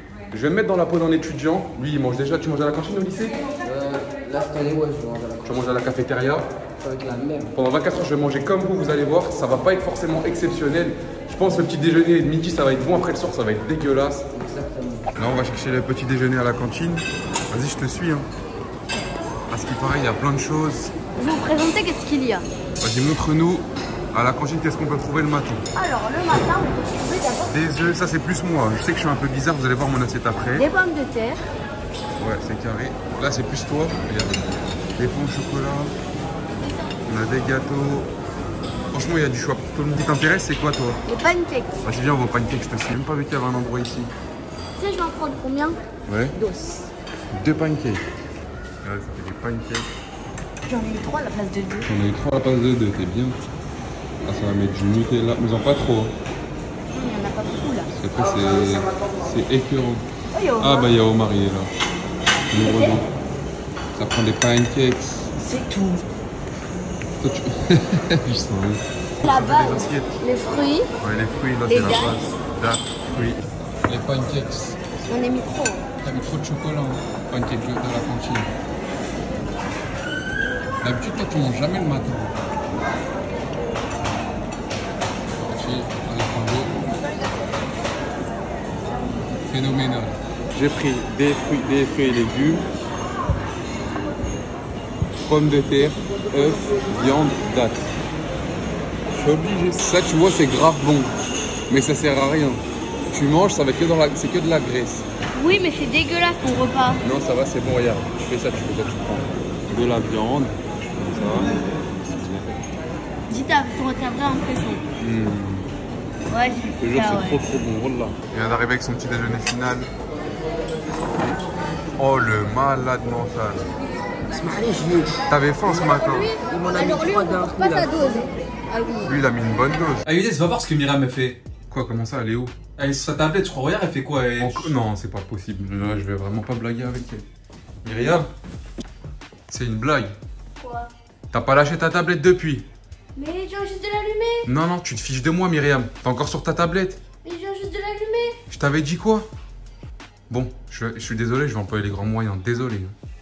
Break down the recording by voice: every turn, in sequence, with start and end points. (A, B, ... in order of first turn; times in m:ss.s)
0:00.3-0:03.4 A
0:03.6-0:05.7 B
0:05.4-0:06.5 A
0:06.8-0:07.5 B
0:07.4-0:14.3 A
0:14.3-0:15.2 B
0:15.2-0:18.3 A
0:19.5-0:20.9 A
0:21.2-0:22.5 C
0:22.8-0:25.6 A
0:25.7-0:27.5 C
0:27.5-0:30.7 A
0:30.6-0:31.4 C
0:32.2-0:35.9 A
0:37.1-0:38.1 A
0:38.9-0:41.0 A
0:41.1-0:41.8 C
0:41.8-0:44.1 A
0:44.8-0:45.8 C
0:46.1-0:46.4 A
0:46.4-0:46.9 C
0:47.3-0:48.0 A
0:48.8-0:49.9 A
0:50.7-0:51.9 C
0:51.8-0:53.4 A
0:54.3-0:56.1 A
0:56.9-0:57.9 C
0:57.9-1:00.1 A
1:00.3-1:00.9 C
1:00.6-1:01.7 A
1:02.5-1:03.1 A
1:02.6-1:02.9 C
1:04.0-1:05.4 A
1:07.2-1:14.9 A
1:09.2-1:10.9 C
1:11.7-1:12.2 C
1:15.1-1:15.8 C
1:16.0-1:18.5 A
1:20.8-1:22.4 A
1:25.4-1:26.9 A
1:29.5-1:32.6 A
1:35.2-1:37.9 A
1:39.1-1:41.1 A
1:41.7-1:45.1 A
1:45.3-1:47.0 C
1:47.0-1:52.6 A
1:53.3-1:54.8 C
1:55.0-1:55.7 A
1:56.3-1:57.4 C
1:56.8-1:59.9 A
2:02.0-2:03.7 A
2:04.3-2:05.2 B
2:05.3-2:06.4 A
2:05.8-2:09.1 C
2:06.5-2:08.0 B
2:09.0-2:10.0 A
2:10.0-2:11.4 D
2:11.7-2:12.6 A
2:12.8-2:14.7 D
2:14.4-2:17.2 A
2:17.8-2:18.3 A
2:19.5-2:20.1 A
2:20.6-2:20.9 C
2:21.3-2:22.7 A
2:23.2-2:24.5 C
2:24.4-2:27.0 A
2:27.2-2:28.4 C
2:28.5-2:29.3 A
2:30.3-2:32.9 A